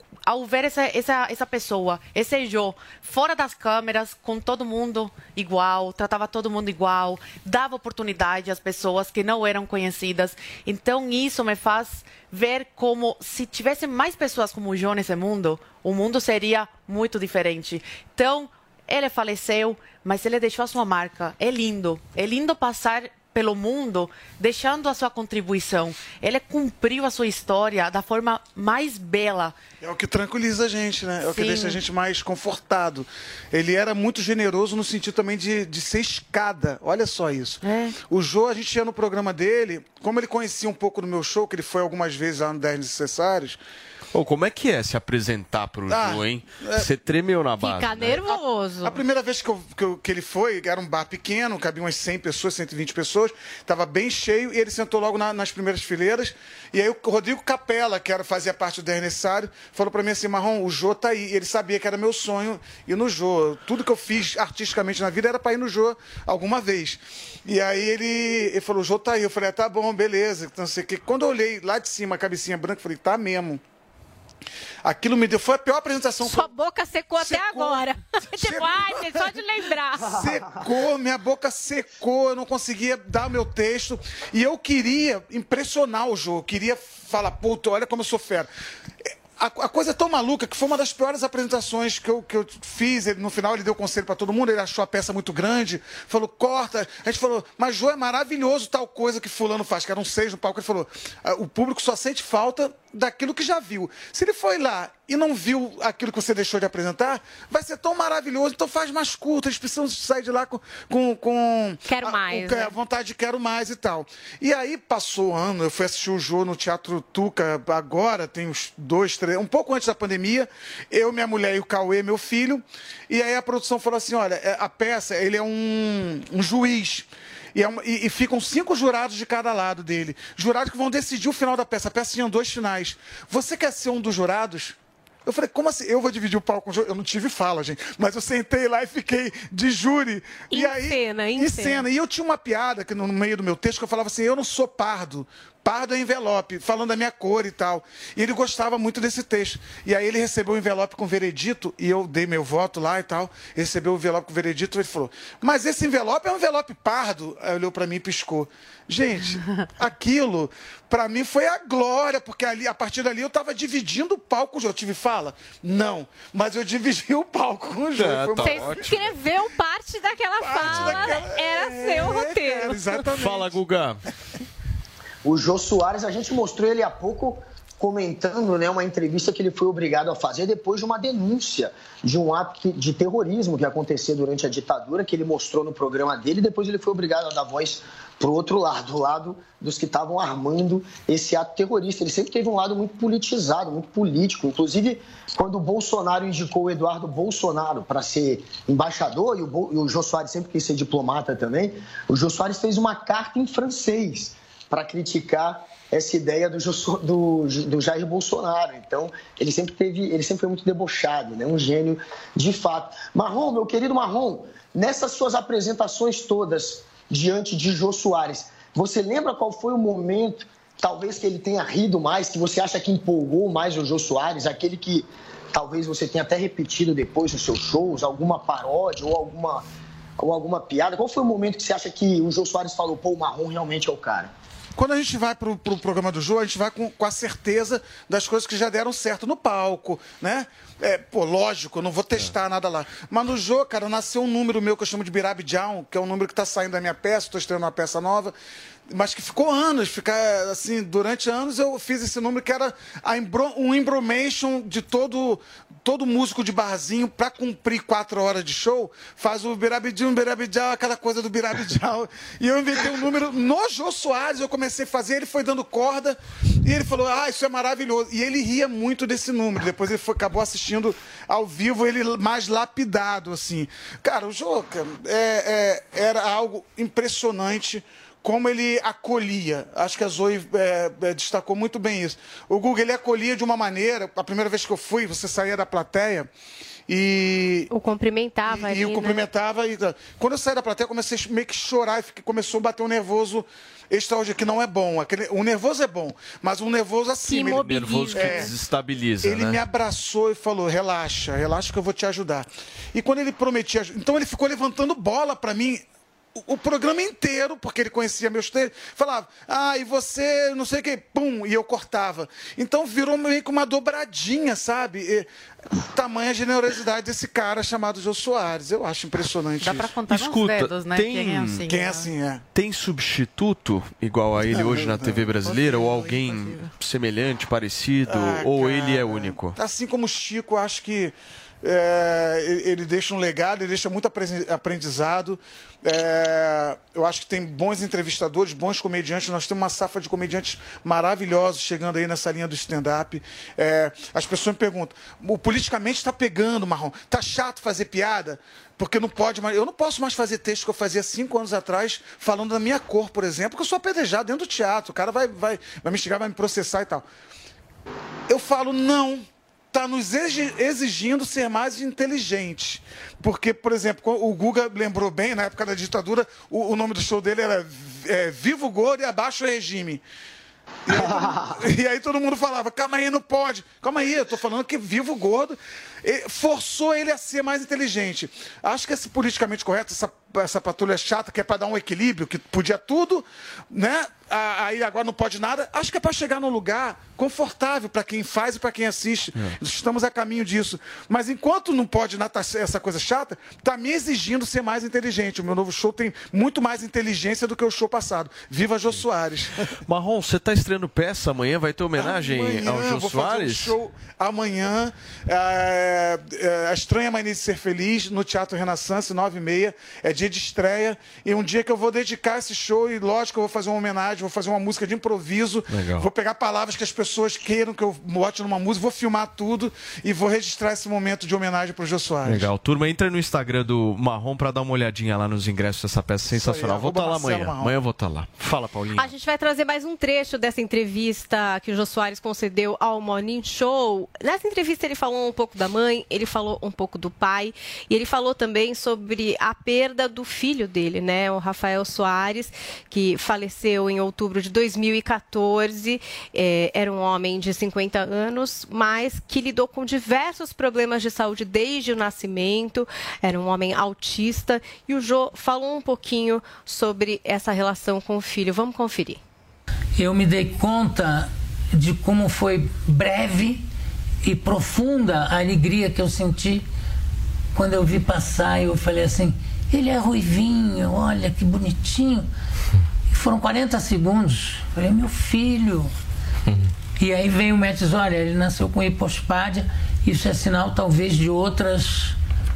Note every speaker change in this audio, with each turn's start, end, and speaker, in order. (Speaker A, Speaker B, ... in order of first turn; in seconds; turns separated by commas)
Speaker A: 0.3-29.6, Speaker B: 29.8-43.6, Speaker A: 31.2-31.8, Speaker A: 37.6-38.0, Speaker C: 44.1-48.2, Speaker B: 45.9-46.9, Speaker D: 47.6-49.0, Speaker B: 48.3-73.6, Speaker B: 74.8-76.5, Speaker D: 76.2-80.4, Speaker B: 77.2-77.8, Speaker B: 78.4-79.4, Speaker B: 80.0-88.5, Speaker B: 89.4-134.7, Speaker D: 111.9-112.7, Speaker B: 135.2-168.9, Speaker D: 140.5-141.8, Speaker C: 167.9-169.1, Speaker D: 168.4-173.0, Speaker B: 170.4-173.6, Speaker C: 170.6-171.0, Speaker C: 173.1-174.0, Speaker E: 175.2-229.7, Speaker E: 230.2-234.3, Speaker B: 234.8-248.3, Speaker B: 248.9-286.3, Speaker B: 286.9-287.7, Speaker D: 287.7-289.2, Speaker B: 288.4-298.5, Speaker D: 297.2-298.5, Speaker C: 297.6-299.6, Speaker B: 299.2-305.8, Speaker B: 306.4-315.3, Speaker B: 315.8-319.8, Speaker A: 319.6-322.1, Speaker C: 320.1-321.7, Speaker B: 321.7-322.4, Speaker C: 322.5-329.6, Speaker B: 324.5-326.1, Speaker B: 328.1-357.0, Speaker B: 358.3-370.0, Speaker B: 370.9-399.7, Speaker E: 370.9-371.6, Speaker C: 399.9-403.8, Speaker B: 401.9-422.5, Speaker C: 415.7-416.1, Speaker C: 422.2-429.1, Speaker B: 426.3-427.7, Speaker D: 428.9-459.2, Speaker F: 460.0-463.6, Speaker F: 464.2-466.6, Speaker F: 467.5-472.3, Speaker F: 473.1-475.9, Speaker F: 477.0-482.1